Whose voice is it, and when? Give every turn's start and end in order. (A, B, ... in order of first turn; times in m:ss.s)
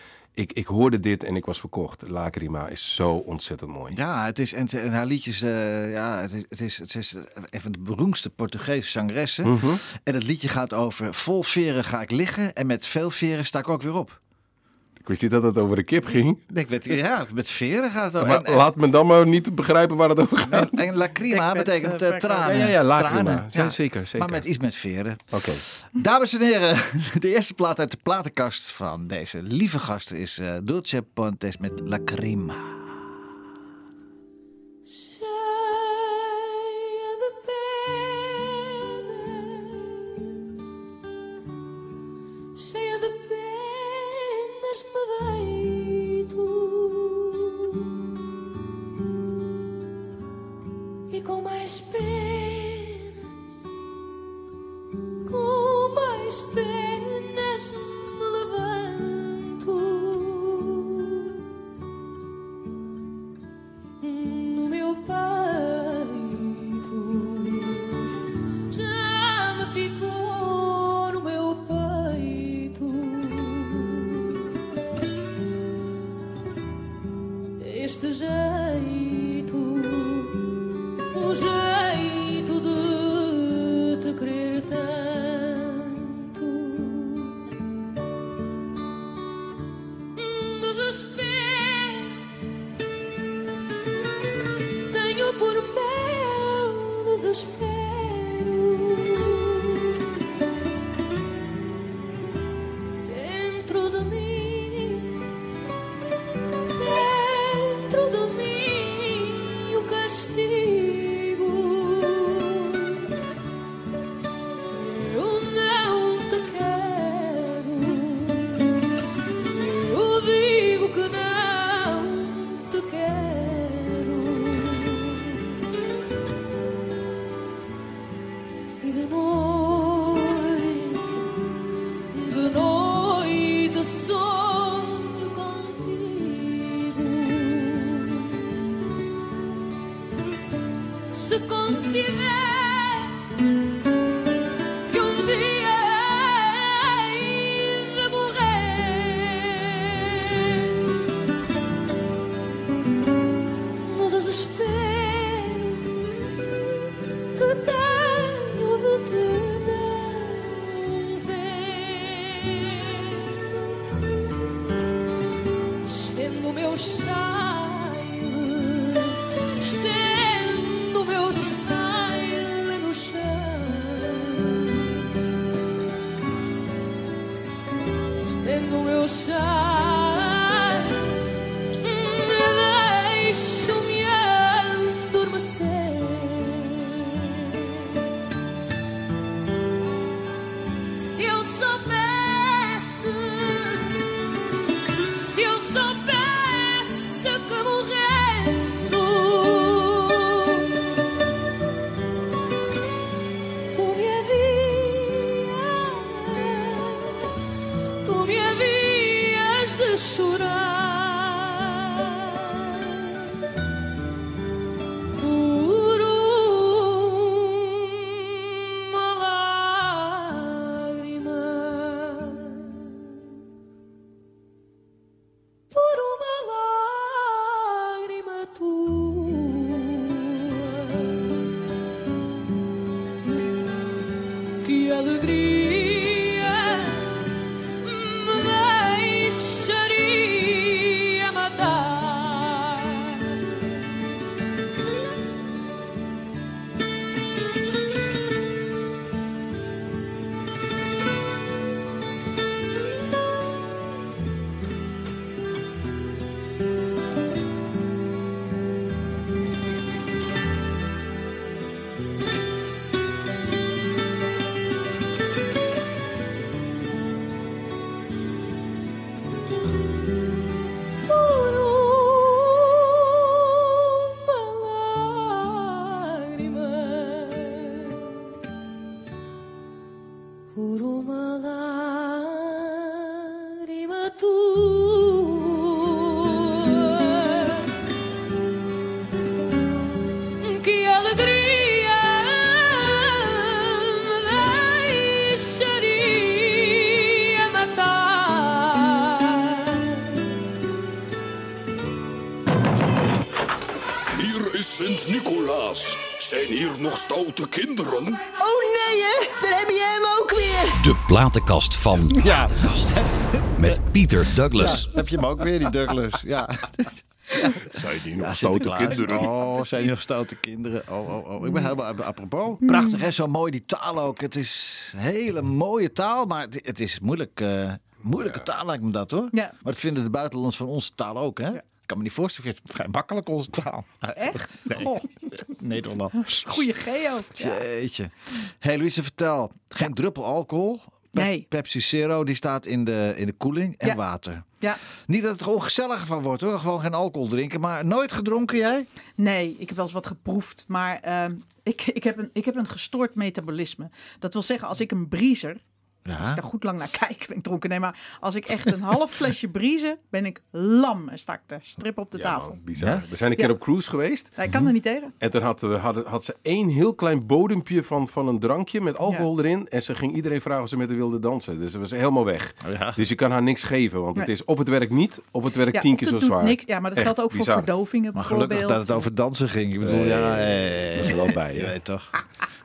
0:00.4-0:04.0 A
0:03.9-0:14.2 B
0:09.4-0:09.8 A
0:15.0-0:16.4 A
0:16.5-0:18.7 B
0:18.2-0:20.9 A
0:20.5-0:25.3 B
0:21.3-0:22.5 C
0:22.4-0:24.4 A
0:25.3-0:25.6 A
0:26.0-0:33.2 B
0:34.9-0:40.4 D
0:42.6-0:47.8 D
0:51.1-0:53.2 D
0:55.3-1:01.3 D
1:04.0-1:08.0 D
1:08.7-1:14.4 D
1:17.6-1:20.4 D
1:21.1-1:27.4 D
1:30.2-1:32.3 D
1:34.9-1:40.0 D
1:43.1-1:45.2 D
1:46.7-1:53.1 D
1:54.7-1:58.9 D
1:59.4-2:05.5 D
2:08.8-2:11.4 D
2:12.1-2:18.5 D
2:21.1-2:23.4 D
2:24.9-2:30.8 D
2:33.8-2:36.0 D
2:37.4-2:43.5 D
2:45.8-2:55.0 D
2:58.3-3:01.2 D
3:01.8-3:07.6 D
3:11.0-3:14.2 D
3:15.2-3:20.8 D
3:23.7-3:27.4 D
3:28.0-3:33.2 D
3:35.2-3:43.1 D
3:45.7-3:51.4 D
3:54.6-3:57.3 D
3:57.8-4:03.4 D
4:31.0-4:38.1 D
4:40.5-4:47.7 D
4:50.4-5:00.1 D
5:04.1-5:08.2 E
5:08.4-5:10.8 F
5:10.8-5:12.8 G
5:12.1-5:13.8 B
5:13.6-5:14.9 G
5:14.5-5:36.7 B
5:17.7-5:19.3 A
5:18.7-5:19.9 C
5:22.6-5:23.0 C
5:34.2-5:35.1 C
5:36.2-5:37.6 C
5:37.4-5:44.5 B
5:41.2-5:41.5 C
5:45.1-5:48.9 B
5:49.2-5:55.6 C
5:56.0-5:56.4 B
5:56.2-6:02.6 C
6:02.2-6:04.3 A
6:02.8-6:03.0 B
6:04.4-6:05.1 C
6:05.2-6:17.7 A
6:12.6-6:13.0 B
6:15.7-6:19.1 C
6:18.2-6:22.1 B
6:19.8-6:21.7 A